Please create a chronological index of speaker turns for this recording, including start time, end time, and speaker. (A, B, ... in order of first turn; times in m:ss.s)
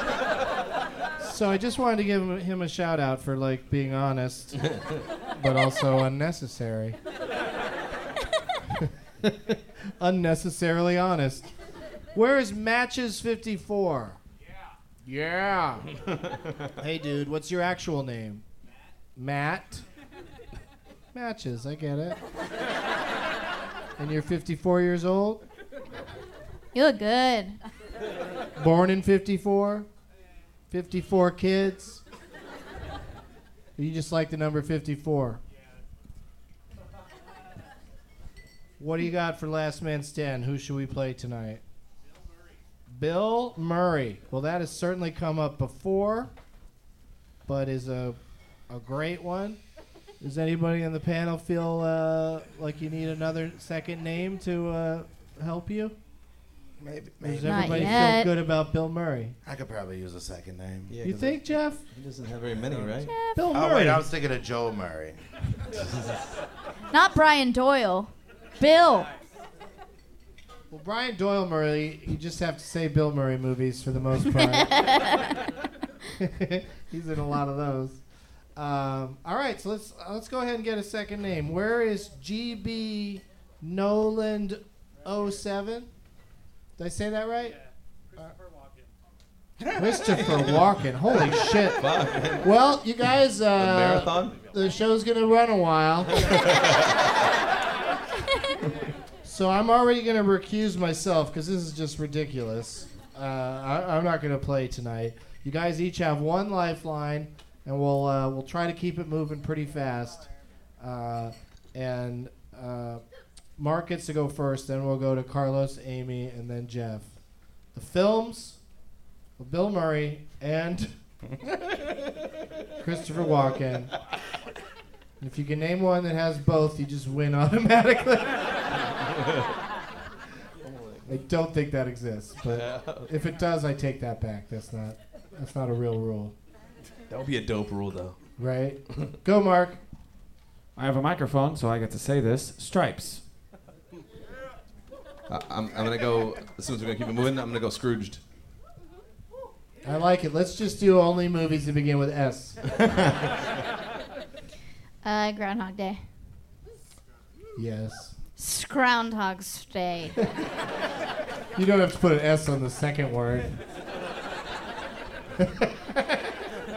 0:01.2-0:04.7 A
0:05.3-0:07.0 A
0:08.7-0:11.4 A
0:12.1-0:14.2 A
0:15.0-0:15.8 A
0:16.8-0:18.4 A
0:19.2-0:19.8 A
0:21.1-0:22.2 A
0:24.0-0:25.4 A
0:26.7-0:27.6 B
0:28.6-0:29.9 A
0:30.7-0:32.0 A
0:33.8-0:35.4 A
0:38.8-0:41.6 A
0:42.9-0:46.3 A
0:47.4-0:49.6 A
0:50.2-0:55.9 A
0:56.8-0:58.1 C
0:57.2-0:59.4 A
0:57.4-0:58.3 B
0:59.4-1:00.9 C
1:00.9-1:03.1 D
1:01.0-1:01.8 A
1:03.1-1:03.4 B
1:03.3-1:04.0 A
1:03.5-1:05.2 C
1:06.9-1:09.1 B
1:10.7-1:14.9 A
1:14.3-1:15.4 B
1:16.2-1:18.0 A
1:18.6-1:25.9 A
1:26.8-1:27.6 A
1:29.6-1:30.4 C
1:29.8-1:31.8 A
1:31.7-1:32.5 D
1:32.4-1:36.3 A
1:33.5-1:34.4 D
1:36.2-1:36.7 D
1:39.2-1:50.3 A
1:50.8-1:53.0 A
1:53.6-1:57.1 A
1:57.7-1:58.6 A
1:59.4-2:00.9 A
2:02.8-2:03.9 A
2:05.2-2:08.4 A
2:10.6-2:11.1 D
2:11.0-2:16.3 A
2:12.4-2:13.1 D
2:17.1-2:18.2 D
2:18.4-2:19.8 A
2:20.8-2:23.2 E
2:25.3-2:28.2 D
2:29.8-2:32.6 A
2:35.0-2:36.0 B
2:37.6-2:38.1 A
2:38.4-2:40.2 B
2:41.6-2:43.6 A
2:45.4-2:46.3 A